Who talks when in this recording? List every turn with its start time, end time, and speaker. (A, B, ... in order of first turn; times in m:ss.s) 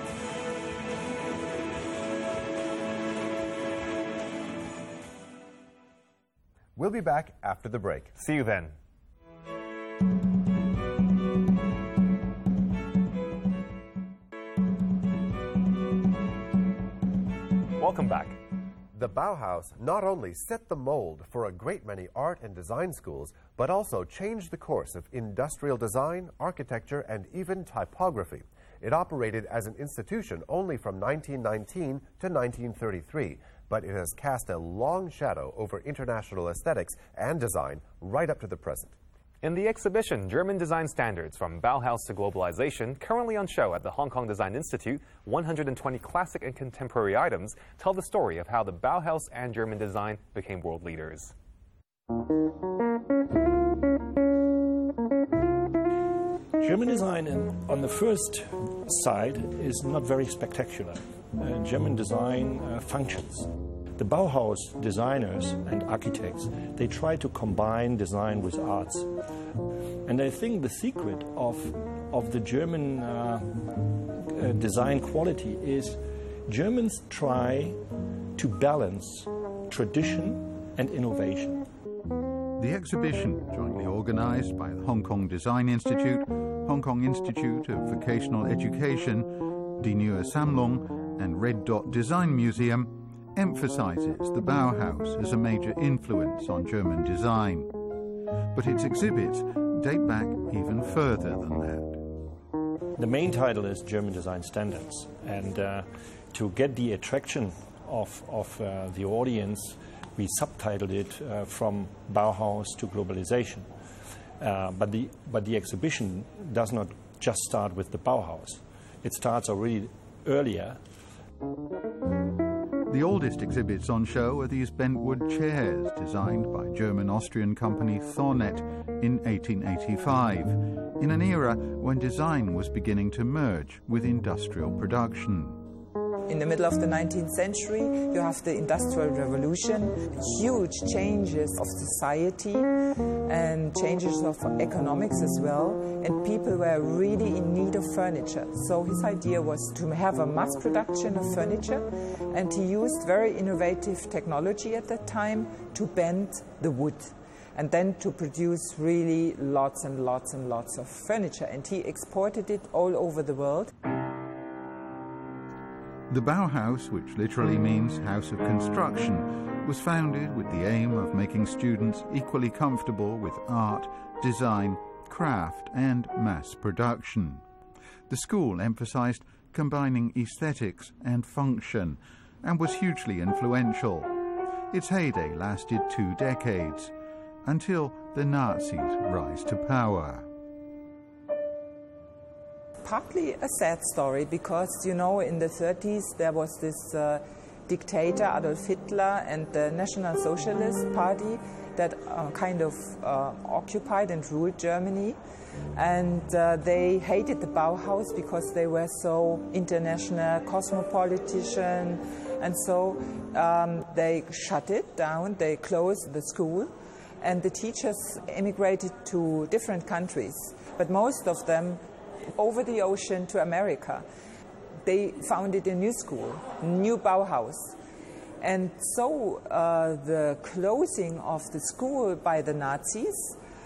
0:06.8-0:08.1 A
0:08.2-0:08.8 B
0:17.8-0:18.4 B
0:18.9-0:39.0 A
0:39.4-0:51.3 B
0:56.6-1:09.2 C
1:10.0-1:17.8 C
1:18.3-1:21.7 C
1:22.6-1:37.7 D
1:38.5-1:42.0 D
1:43.0-1:53.7 C
1:54.4-2:00.8 C
2:02.9-2:15.6 D
2:16.3-2:22.7 E
2:23.2-2:43.7 E
2:46.1-2:57.4 D
2:58.1-3:04.1 D
3:04.7-3:10.3 D
3:12.8-3:25.2 E
3:25.7-3:41.8 E
3:42.4-3:44.0 E
3:44.8-3:47.8 E
3:48.4-3:53.4 E